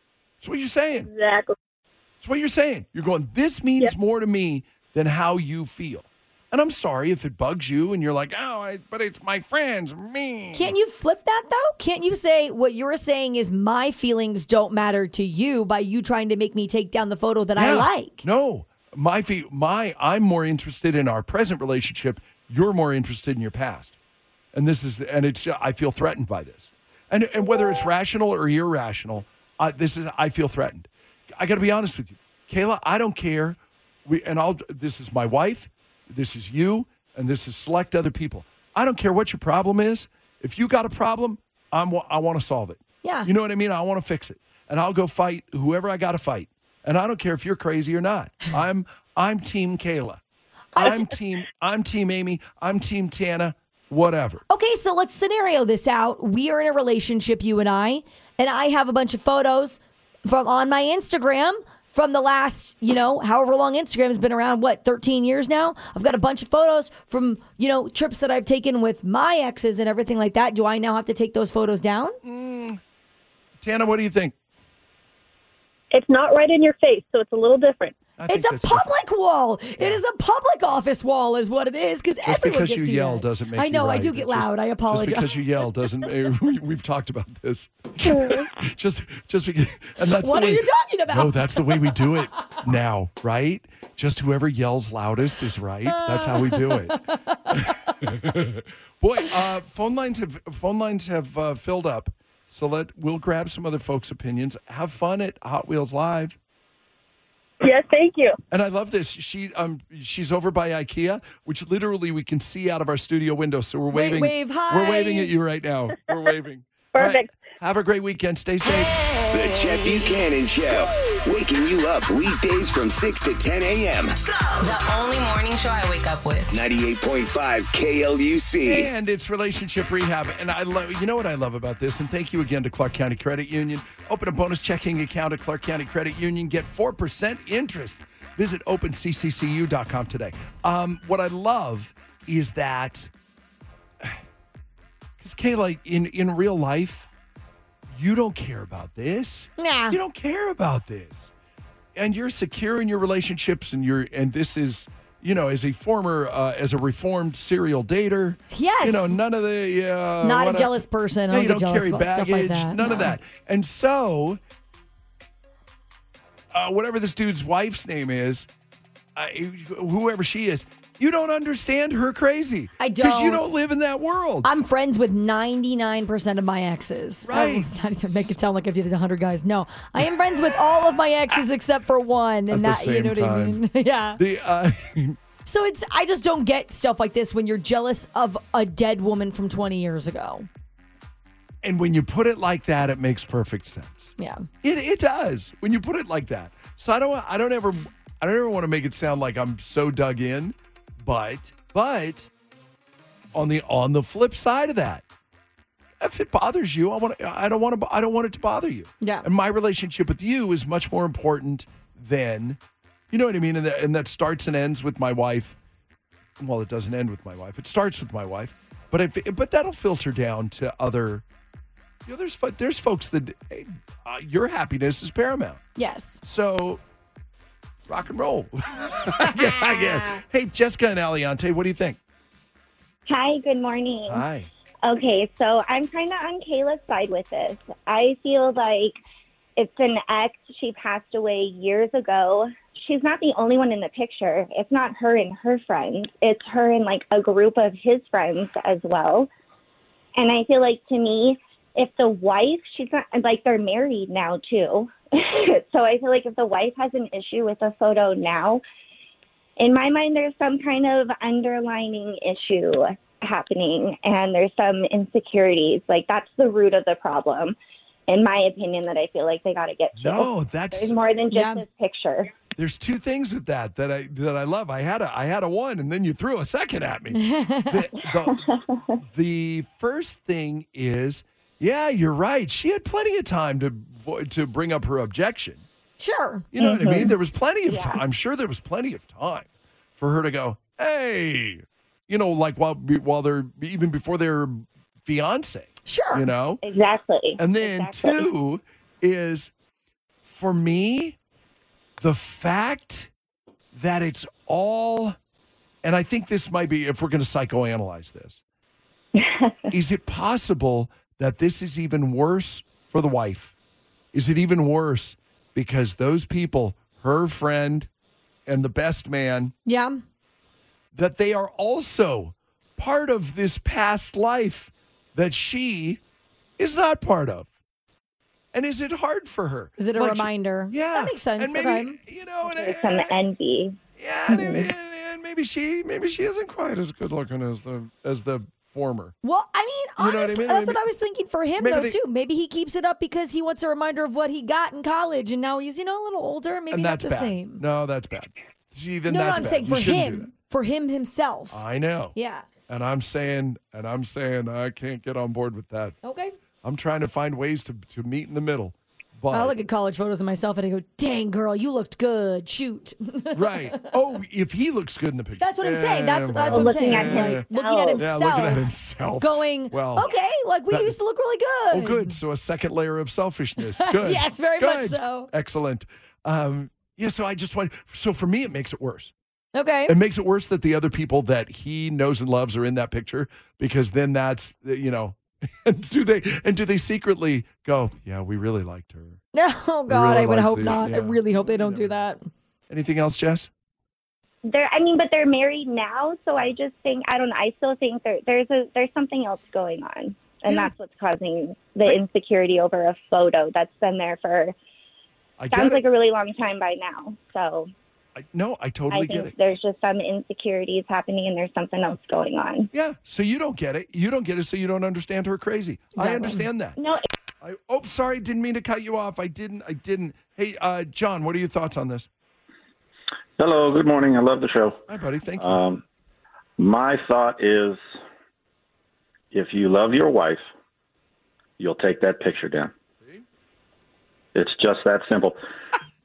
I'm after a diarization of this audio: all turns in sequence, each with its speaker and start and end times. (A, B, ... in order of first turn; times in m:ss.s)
0:00.4-0:01.1 A
0:01.0-0:01.6 B
0:02.2-0:10.7 A
0:10.5-0:18.2 C
0:17.6-0:24.0 A
0:24.5-0:50.2 A
0:43.0-0:43.3 C
0:50.8-0:51.0 C
0:50.8-0:54.4 A
0:54.5-1:12.2 C
1:12.2-1:12.8 A
1:13.6-1:14.3 A
1:15.9-1:18.0 B
1:18.2-1:18.9 A
1:18.3-1:25.3 C
1:22.2-1:37.0 A
1:30.2-1:32.6 C
1:35.9-1:37.5 C
1:37.5-1:46.4 A
1:47.6-1:48.4 B
1:48.5-1:58.9 A
1:53.9-1:55.3 C
1:56.9-1:57.3 B
1:59.3-2:04.2 D
2:04.6-2:06.6 E
2:06.5-2:08.9 D
2:08.7-2:23.1 A
2:25.2-2:27.1 A
2:27.9-2:31.3 A
2:29.6-2:30.0 C
2:32.0-2:40.8 A
2:38.5-2:39.2 C
2:40.2-2:43.2 C
2:41.3-2:44.4 A
2:46.5-2:48.5 A
2:49.2-2:54.5 A
2:52.8-2:53.4 C
2:54.4-3:04.2 C
2:57.3-2:57.7 A
3:02.5-3:03.6 A
3:04.2-3:05.2 A
3:05.5-3:10.5 C
3:11.6-3:22.3 A
3:14.2-3:14.5 C
3:23.3-3:25.0 A
3:26.0-3:32.6 A
3:29.0-3:29.3 C
3:33.1-3:35.6 A
3:36.4-3:41.2 A
3:42.1-3:45.6 A
3:45.8-3:46.2 C
3:46.2-3:46.8 A
3:47.9-3:52.0 A
3:53.1-3:54.2 F
3:54.1-3:54.5 A
3:54.8-3:59.0 F
3:59.6-4:09.3 F
4:10.2-4:18.6 F
4:19.6-4:27.6 F
4:28.1-4:32.4 F
4:30.0-4:31.0 A
4:31.3-4:31.6 C
4:32.6-4:38.4 A
4:37.1-4:37.8 C
4:38.2-4:38.8 F
4:39.0-4:45.6 A
4:46.0-4:46.5 C
4:46.6-4:56.6 A
4:46.6-4:48.0 F
4:55.9-4:56.3 C
4:56.6-4:58.3 F
4:57.4-4:59.5 A
5:00.2-5:01.2 A
5:02.0-5:03.1 A
5:03.7-5:05.2 A
5:05.8-5:08.4 A
5:09.2-5:09.6 F
5:09.7-5:13.5 A
5:14.1-5:17.9 A
5:18.5-5:19.5 A
5:19.7-5:20.0 C
5:20.9-5:26.0 A
5:26.6-5:27.5 A
5:28.5-5:33.2 A
5:29.8-5:32.0 C
5:32.4-5:34.7 F
5:34.0-5:39.2 A
5:39.2-5:47.6 C
5:40.0-5:40.8 A
5:41.6-5:42.0 A
5:46.7-5:50.3 A
5:49.1-5:51.6 C
5:51.5-5:52.2 A
5:52.1-5:52.5 C
5:52.7-5:56.0 A
5:56.0-5:56.3 C
5:56.6-5:59.6 A
5:59.3-6:03.6 C
6:03.3-6:07.5 A
6:05.4-6:12.2 C
6:06.6-6:08.0 B
6:08.0-6:10.1 A
6:11.7-6:19.1 A
6:13.8-6:15.3 C
6:19.6-6:19.9 C
6:19.9-6:29.2 A
6:29.3-6:32.3 C
6:29.9-6:32.0 A
6:32.7-6:33.5 A
6:34.4-6:44.6 F
6:45.4-6:45.8 A
6:45.5-6:47.7 F
6:48.2-6:49.3 A
6:48.9-6:52.7 F
6:52.7-6:56.8 A
6:56.0-6:56.4 C
6:56.8-6:57.0 F
6:57.4-7:02.1 A
7:03.4-7:04.8 G
7:04.9-7:05.6 A
7:05.4-7:05.8 G
7:06.6-7:07.8 G
7:09.3-7:10.5 G
7:11.6-7:12.7 G
7:13.0-7:13.2 A
7:14.4-7:15.4 G